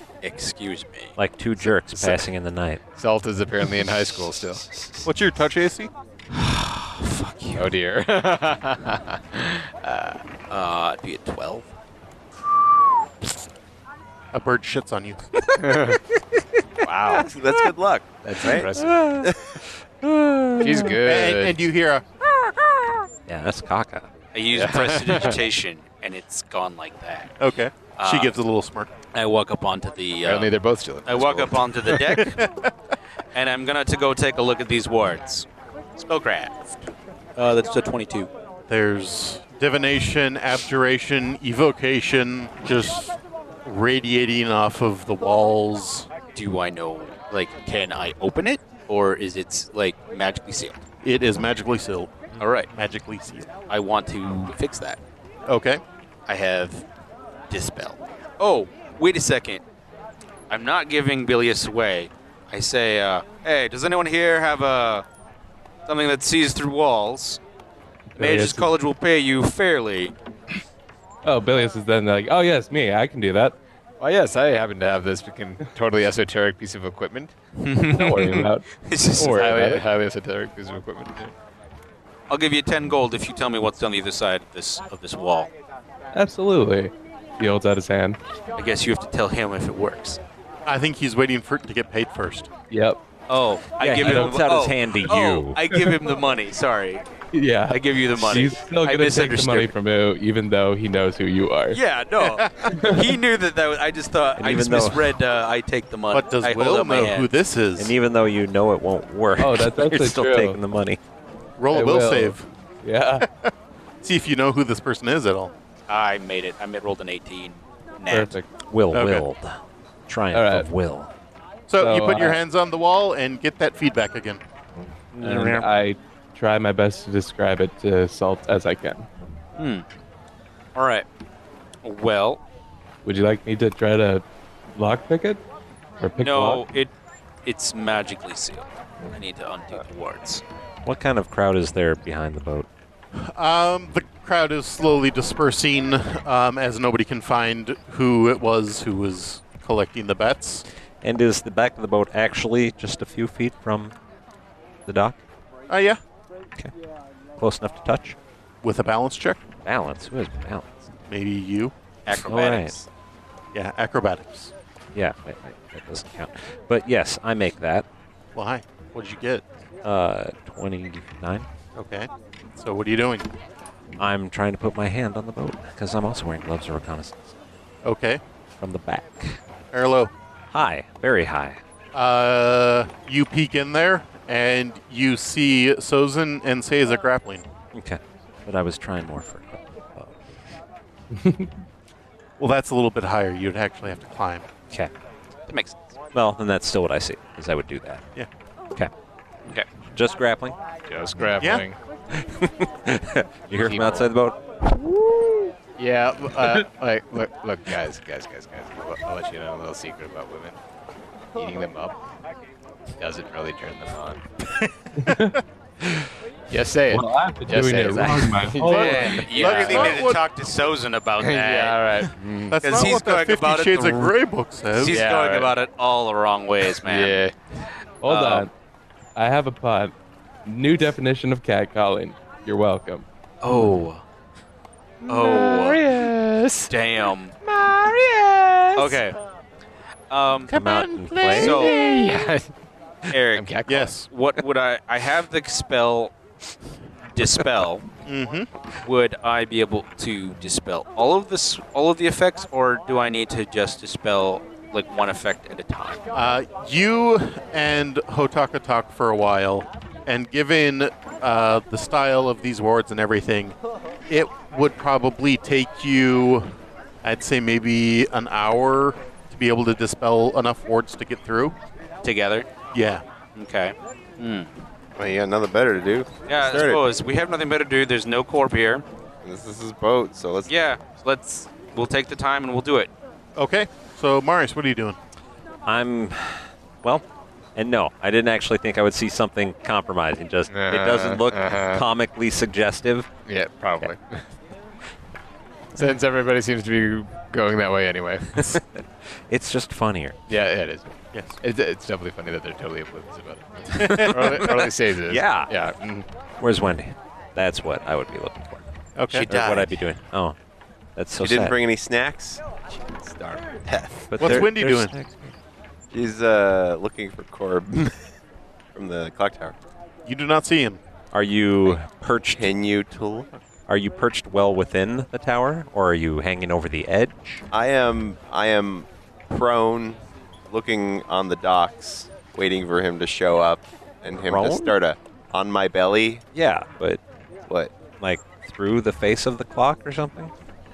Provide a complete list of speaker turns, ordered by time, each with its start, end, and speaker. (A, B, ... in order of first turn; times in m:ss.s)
0:00.2-0:01.1 A
0:01.2-0:02.8 B
0:03.0-0:05.0 C
0:05.0-0:05.9 D
0:06.3-0:07.7 A
0:07.6-0:10.3 C
0:10.5-0:11.7 A
0:14.3-0:15.3 D
0:15.6-0:16.0 C
0:16.8-0:17.3 C
0:17.1-0:19.4 E
0:18.2-0:19.2 C
0:18.8-0:19.3 B
0:20.0-0:21.0 B
0:20.6-0:21.6 C
0:21.0-0:22.1 D
0:23.3-0:24.1 B
0:24.3-0:27.3 A
0:24.5-0:25.4 C
0:27.4-0:28.9 D
0:28.0-0:28.3 A
0:29.1-0:30.5 A
0:30.2-0:32.0 C
0:31.1-0:32.4 A
0:32.2-0:32.7 D
0:33.3-0:36.8 A
0:37.4-0:38.3 A
0:38.7-0:46.1 D
0:46.3-0:50.8 A
0:51.0-0:53.5 D
0:52.4-0:52.7 A
0:53.7-0:55.0 A
0:55.5-0:55.8 D
0:56.3-0:56.9 A
0:57.5-0:59.6 A
1:00.5-1:05.1 A
1:05.9-1:07.4 A
1:08.2-1:08.7 F
1:08.2-1:10.1 A
1:11.2-1:13.6 F
1:14.0-1:17.4 C
1:17.6-1:19.4 A
1:18.0-1:18.7 F
1:19.2-1:19.8 F
1:19.2-1:21.3 C
1:22.3-1:25.5 A
1:26.1-1:28.2 F
1:28.6-1:30.2 A
1:30.7-1:32.5 D
1:32.7-1:33.0 F
1:33.3-1:37.1 A
1:33.8-1:35.6 B
1:34.0-1:34.3 F
1:37.3-1:41.8 F
1:37.7-1:39.7 A
1:41.7-1:47.3 A
1:42.2-1:42.9 D
1:42.7-1:43.0 F
1:44.4-1:45.2 B
1:46.1-1:47.9 D
1:47.8-1:51.0 B
1:49.4-1:50.6 F
1:51.6-1:52.5 D
1:51.7-1:53.3 F
1:53.3-1:55.5 D
1:55.9-1:58.4 A
1:58.1-1:58.5 F
1:58.7-2:01.1 B
1:58.9-1:59.2 D
2:00.3-2:00.7 F
2:01.7-2:04.4 D
2:01.8-2:02.4 F
2:05.1-2:05.7 B
2:05.2-2:09.1 F
2:09.6-2:09.8 A
2:10.8-2:11.1 A
2:11.8-2:12.4 A
2:13.0-2:15.4 F
2:16.0-2:16.6 F
2:16.2-2:16.9 A
2:17.4-2:20.4 A
2:20.8-2:22.7 B
2:23.2-2:30.6 D
2:31.0-2:33.9 B
2:34.9-2:35.2 B
2:35.7-2:36.0 D
2:37.4-2:38.2 B
2:38.6-2:39.4 D
2:39.6-2:40.9 B
2:41.1-2:41.8 D
2:42.1-2:42.9 A
2:42.1-2:42.8 B
2:43.5-2:44.5 D
2:45.0-2:47.8 B
2:48.4-2:49.5 D
2:49.8-2:51.5 B
2:51.8-2:53.3 D
2:54.0-2:57.4 B
2:57.8-2:58.2 D
2:58.6-2:59.4 B
2:59.7-3:00.1 D
3:00.5-3:01.6 B
3:01.9-3:07.5 D
3:07.7-3:10.5 B
3:11.1-3:11.5 F
3:12.4-3:14.5 D
3:15.5-3:16.0 A
3:16.1-3:18.0 B
3:19.9-3:20.6 B
3:20.9-3:21.8 C
3:22.1-3:24.4 B
3:23.6-3:24.1 C
3:25.8-3:30.6 C
3:31.4-3:32.0 C
3:33.0-3:34.2 C
3:35.0-3:35.4 F
3:36.5-3:39.9 C
3:36.9-3:39.2 F
3:38.7-3:40.2 D
3:38.7-3:41.9 A
3:41.2-3:42.6 C
3:42.5-3:45.0 D
3:42.6-3:44.1 A
3:44.7-3:47.2 A
3:44.9-3:45.5 C
3:46.7-3:47.4 C
3:48.0-3:48.5 F
3:48.1-3:48.4 A
3:49.2-3:50.0 F
3:50.5-3:53.1 F
3:53.4-3:54.0 A
3:55.0-3:56.7 C
3:55.1-3:55.9 A
3:56.7-3:57.4 A
3:57.4-3:59.0 C
3:58.8-3:59.2 A
4:00.1-4:00.6 A
4:00.5-4:01.8 B
4:00.6-4:01.4 D
4:01.1-4:02.5 C
4:01.3-4:01.8 A
4:03.1-4:06.2 A
4:03.4-4:03.9 C
4:03.7-4:04.1 D
4:07.1-4:07.8 A
4:08.0-4:08.5 D
4:08.8-4:16.0 A
4:16.1-4:23.6 D
4:24.1-4:31.6 D
4:32.0-4:32.5 A
4:32.7-4:33.0 D
4:33.4-4:34.5 A
4:35.0-4:36.8 E
4:36.3-4:38.8 A
4:39.2-4:40.5 E
4:40.5-4:42.9 A
4:43.4-4:45.0 D
4:45.7-4:47.0 B
4:47.6-4:53.1 B
4:50.5-4:51.8 C
4:53.3-4:54.2 C
4:55.8-4:58.5 C
4:58.4-5:00.2 B
5:00.3-5:06.1 C
5:01.1-5:01.4 D
5:03.8-5:04.6 D
5:03.8-5:05.5 B
5:06.4-5:10.4 B
5:09.0-5:09.3 D
5:09.2-5:09.7 A
5:11.0-5:11.6 B
5:11.2-5:14.5 E
5:14.1-5:15.3 B
5:14.2-5:14.9 D
5:15.9-5:18.1 E
5:18.7-5:19.6 E
5:20.0-5:20.8 D
5:21.1-5:22.6 B
5:22.3-5:23.4 E
5:23.7-5:27.4 B
5:27.5-5:36.2 E
5:34.2-5:34.8 B
5:36.3-5:37.0 B
5:37.5-5:37.7 E
5:38.0-5:40.3 B